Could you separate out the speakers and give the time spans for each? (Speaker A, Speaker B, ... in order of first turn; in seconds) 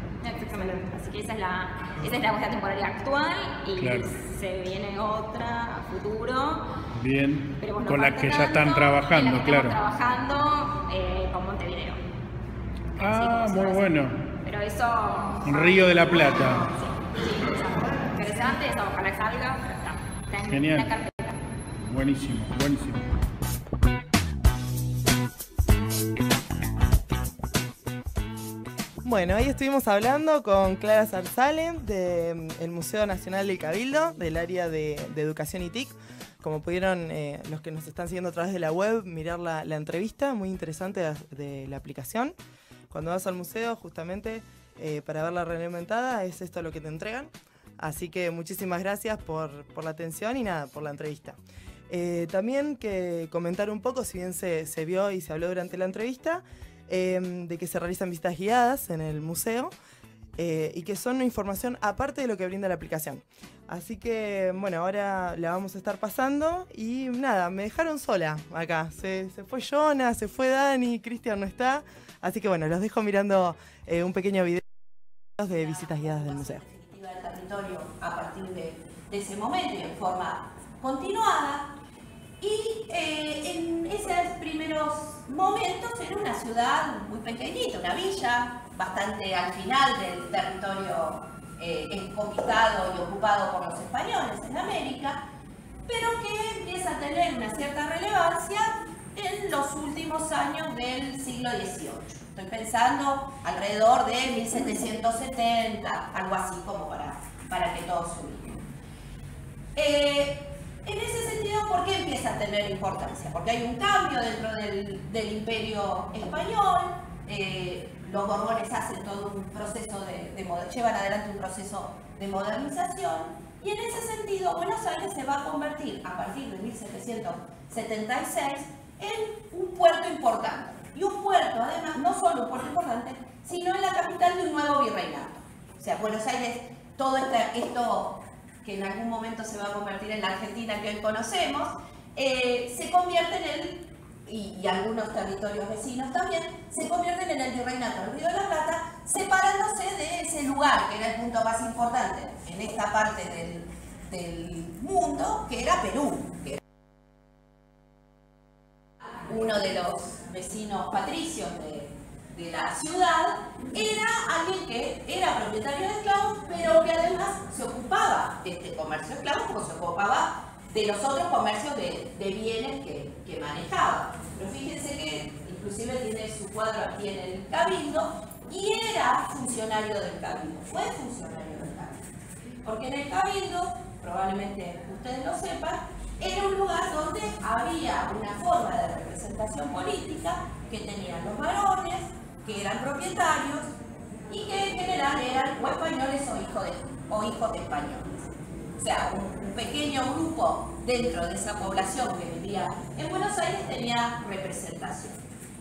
Speaker A: 0.2-6.7, 7.6-12.0, 13.0-13.9, 14.4-21.4
Speaker B: 0.5-0.8, 29.0-42.3, 42.9-51.4, 51.9-59.7, 60.4-74.6, 75.4-76.6
Speaker C: 3.8-4.2, 6.9-9.8, 13.0-14.2, 15.4-16.7, 20.5-20.9, 21.8-23.1
Speaker D: 75.6-81.7, 82.4-95.2, 95.9-108.6, 109.8-156.6, 159.3-182.1, 182.6-193.7, 194.3-205.2